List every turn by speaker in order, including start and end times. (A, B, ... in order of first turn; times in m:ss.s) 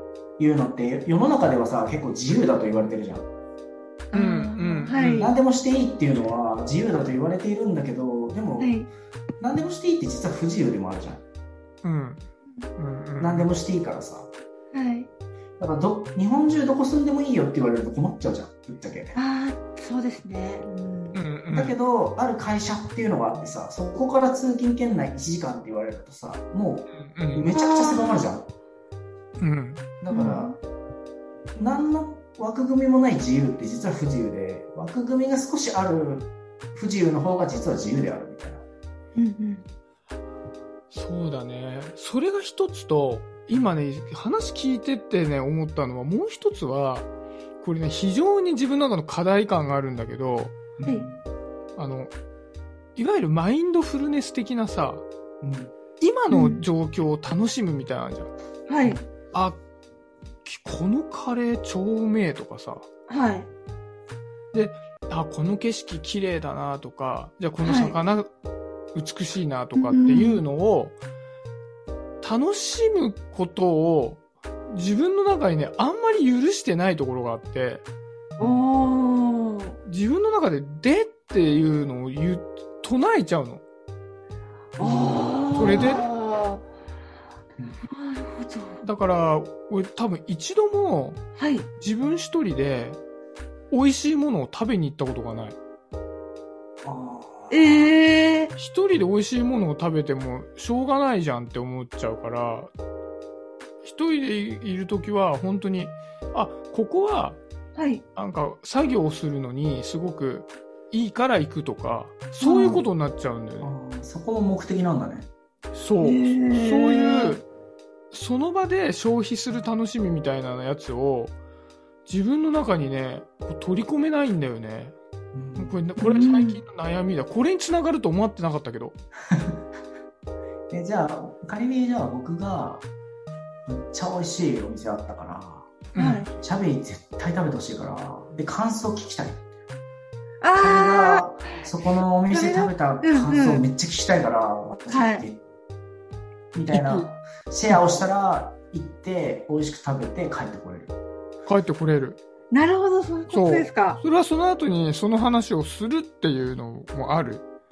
0:00.4-0:03.2 A
0:04.1-0:05.3 B
0:04.1-0:05.3 C
0:05.0-0:08.7 A
0:08.6-0:08.9 B
0:09.4-0:11.2 A
0:11.8-0:12.2 C
0:12.8-0:13.5 C
0:13.2-0:14.3 A
0:14.7-0:15.1 B
0:15.6-0:19.2 A
0:19.1-0:21.2 B
0:21.1-0:21.8 C
0:21.5-0:28.5 A
0:26.9-0:27.5 C
0:27.5-0:28.3 B
0:29.4-0:29.8 C
0:30.0-0:30.6 A
0:30.1-0:30.6 B
0:31.5-0:38.6 A
0:39.2-0:39.6 B
0:40.9-0:47.1 C
0:47.6-0:50.6 C
0:50.8-0:51.2 A
0:51.8-0:52.1 C
0:53.0-0:55.0 C
0:55.4-0:55.7 A
0:56.0-0:58.3 C
0:56.3-0:56.6 B
0:58.7-0:59.0 B
0:59.3-0:59.6 C
1:00.4-1:02.8 C
1:03.1-1:03.5 B
1:04.5-1:08.3 C
1:07.6-1:08.0 B
1:08.9-1:10.9 C
1:09.8-1:10.4 B
1:12.2-1:17.8 C
1:18.4-1:19.8 B
1:19.8-1:23.6 C
1:24.8-1:26.7 B
1:24.8-1:25.9 A
1:25.5-1:26.0 C
1:27.9-1:28.8 B
1:28.8-1:31.2 C
1:31.4-1:31.7 B
1:31.8-1:33.0 C
1:33.7-1:35.6 C
1:36.8-1:37.9 A
1:37.5-1:38.5 B
1:38.6-1:42.7 C
1:43.8-1:47.4 C
1:47.7-1:48.0 B
1:48.2-1:53.7 C
1:52.4-1:52.8 B
1:53.6-1:55.3 A
1:55.7-1:57.4 C
1:56.0-1:57.4 B
1:58.1-2:01.3 C
2:02.0-2:04.9 C
2:05.3-2:05.8 A
2:05.6-2:08.9 C
2:06.0-2:06.6 B
2:10.7-2:12.8 A
2:13.6-2:15.7 A
2:15.9-2:16.3 C
2:16.0-2:16.3 B
2:16.4-2:19.4 A
2:20.4-2:21.6 B
2:20.6-2:25.4 A
2:22.3-2:23.6 B
2:24.9-2:25.2 B
2:26.5-2:30.9 A
2:26.7-2:27.0 C
2:31.5-2:32.2 C
2:32.5-2:34.0 B
2:33.3-2:37.4 C